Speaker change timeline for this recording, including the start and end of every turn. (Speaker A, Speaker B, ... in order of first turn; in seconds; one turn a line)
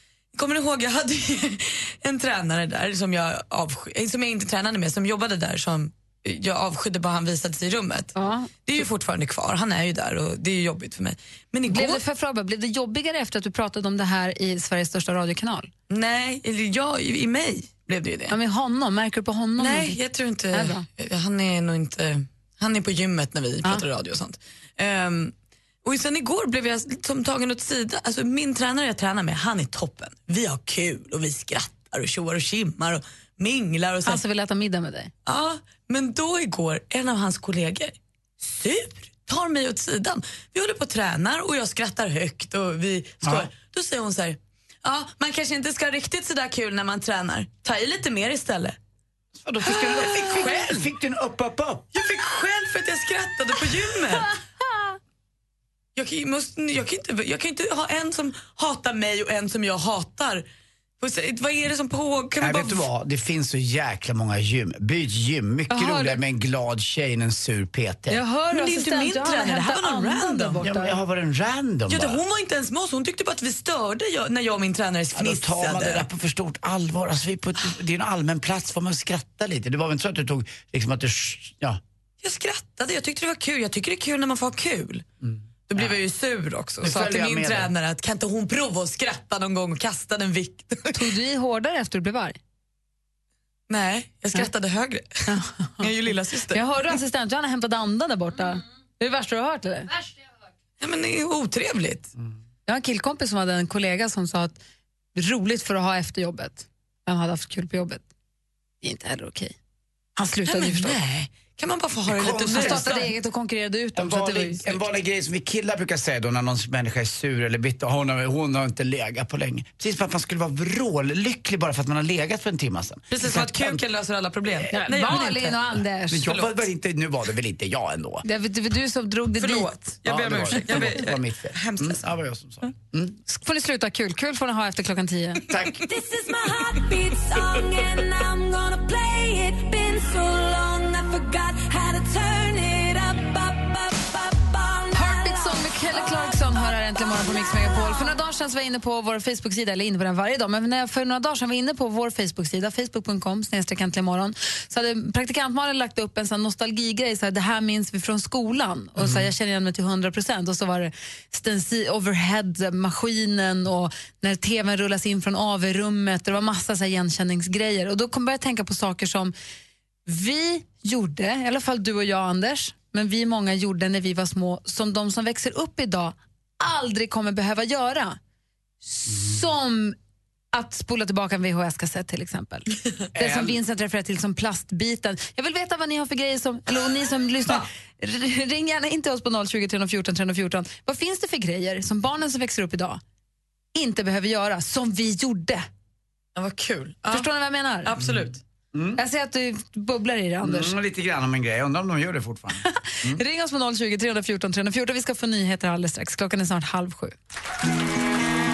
Speaker A: 0.3-8.1
Speaker B: 8.2-8.5
Speaker A: 8.7-12.0
Speaker B: 11.7-15.7
Speaker A: 15.9-18.4
Speaker B: 18.3-20.0
Speaker A: 19.6-25.3
Speaker B: 20.5-20.8
Speaker A: 25.8-34.2
Speaker B: 34.0-35.1
Speaker A: 35.3-48.8
Speaker C: 43.2-43.5
Speaker C: 49.4-51.9
Speaker A: 49.7-50.9
Speaker A: 51.9-54.3
Speaker A: 56.0-60.5
Speaker A: 61.0-62.9
Speaker C: 62.4-68.2
Speaker B: 65.7-66.2
Speaker B: 68.1-71.0
Speaker A: 68.5-70.6
Speaker C: 70.6-72.2
Speaker A: 71.9-76.1
Speaker C: 75.1-81.8
Speaker A: 82.2-85.0
Speaker C: 85.2-86.0
Speaker A: 85.7-91.0
Speaker C: 86.8-87.7
Speaker B: 90.9-92.4
Speaker A: 93.7-96.6
Speaker B: 95.3-95.9
Speaker B: 96.5-99.9
Speaker A: 100.8-102.1
Speaker B: 102.7-104.6
Speaker B: 105.2-108.0
Speaker B: 108.8-109.5
Speaker B: 110.2-111.0
Speaker A: 110.5-113.1
Speaker C: 112.1-113.0
Speaker B: 112.5-114.8
Speaker C: 114.0-123.8
Speaker A: 123.1-125.8
Speaker B: 124.7-126.3
Speaker C: 126.1-128.2
Speaker B: 128.2-129.7
Speaker A: 129.4-132.1
Speaker C: 130.1-133.2
Speaker B: 133.3-135.4
Speaker C: 135.5-135.8
Speaker D: 137.5-137.8
Speaker D: 140.2-143.6
Speaker B: 144.9-169.3
Speaker C: 159.0-159.3
Speaker B: 170.1-178.2
Speaker B: 178.8-180.0
Speaker B: 180.5-193.0
Speaker C: 183.1-183.6
Speaker B: 193.8-195.7
Speaker A: 196.4-197.3
Speaker B: 197.1-197.9
Speaker A: 197.8-198.4
Speaker C: 198.0-199.0
Speaker B: 199.0-200.7
Speaker C: 200.4-203.2
Speaker B: 202.7-207.2